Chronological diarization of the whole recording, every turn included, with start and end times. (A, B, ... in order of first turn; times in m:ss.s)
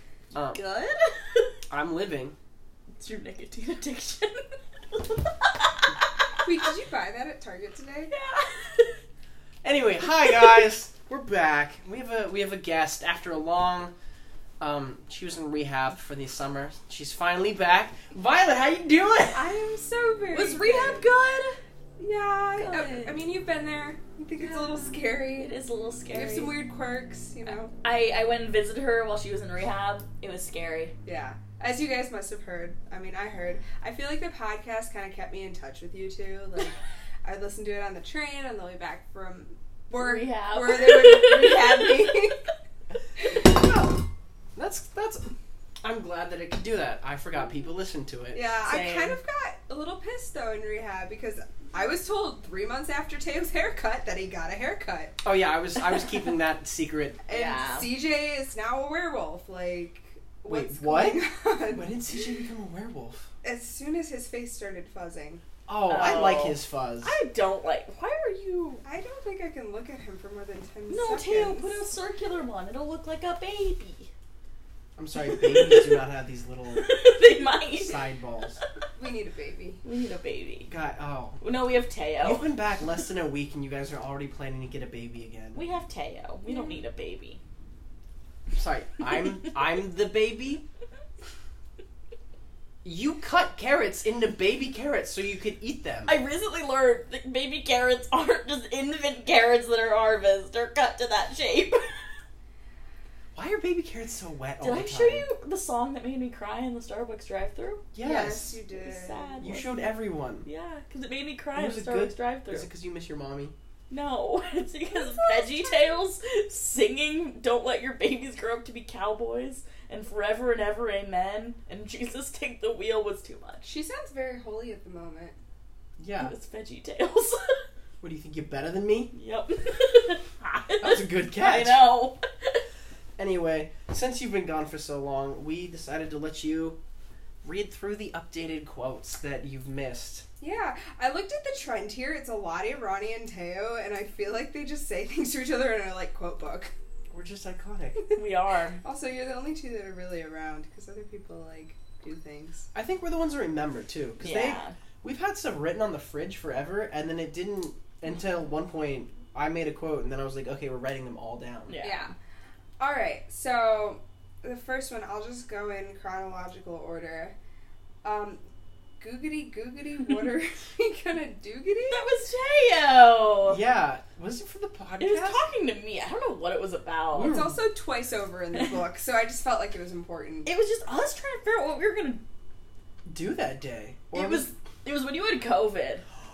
0:00.3-0:00.6 A
0:00.5-0:01.6 B
0:01.7-0:02.4 A
0:03.0-0:06.4 B
0:06.4-0:08.1 C
0:08.1-0:09.0 B
0:09.6-0:13.9 A
0:14.6-0:19.5 A
0:19.3-0:21.1 C
0:20.3-0:21.6 B
0:22.0-0:25.5 C
0:22.6-0:23.2 B
0:24.4-0:26.5 B
0:26.1-0:27.7 C
0:27.4-0:30.9 B
0:31.0-0:42.4 C
0:40.0-0:42.2 B
0:43.2-0:43.5 C
0:43.3-0:43.9 A
0:44.6-0:45.3 A
0:45.8-0:48.5 A
0:48.3-0:55.2 C
0:48.6-0:49.2 B
0:55.2-0:57.2 A
0:55.8-0:56.2 B
0:57.3-1:02.0 C
0:57.3-0:57.9 B
1:00.5-1:03.3 A
1:03.4-1:05.4 C
1:05.7-1:07.2 A
1:05.9-1:08.8 B
1:08.8-1:11.9 C
1:10.9-1:14.1 B
1:15.0-1:17.0 A
1:15.2-1:16.0 B
1:16.7-1:18.0 B
1:17.7-1:18.6 A
1:19.0-1:19.8 C
1:19.8-1:20.7 B
1:20.7-1:21.4 A
1:21.4-1:22.5 B
1:22.2-1:25.6 A
1:25.6-1:27.4 B
1:26.5-1:26.8 C
1:28.5-1:30.6 A
1:32.8-1:36.2 A
1:36.1-1:42.1 B
1:43.4-1:45.2 A
1:44.6-1:47.8 B
1:47.9-1:48.6 A
1:48.0-1:49.4 C
1:48.8-1:49.8 B
1:49.4-1:50.5 A
1:50.4-1:52.7 B
1:51.6-1:53.5 A
1:53.9-2:03.7 B
1:54.9-1:56.0 C
2:03.6-2:05.4 C
2:06.0-2:06.3 A
2:06.2-2:07.6 B
2:08.0-2:09.1 A
2:09.1-2:12.6 B
2:10.8-2:11.8 A
2:13.2-2:16.8 A
2:17.4-2:20.3 A
2:20.4-2:26.7 C
2:27.1-2:28.0 A
2:28.2-2:28.8 B
2:28.8-2:32.7 C
2:32.7-2:41.7 A
2:34.2-2:34.7 B
2:41.7-2:42.1 B
2:41.8-2:42.1 C
2:42.8-2:47.3 C
2:48.0-2:48.4 C
2:49.0-2:52.2 C
2:51.9-2:53.6 B
2:53.5-2:55.4 A
2:55.0-2:57.4 B
2:57.1-2:57.6 A
2:57.2-3:00.5 C
3:00.4-3:02.2 B
3:03.1-3:04.5 A
3:04.1-3:06.0 B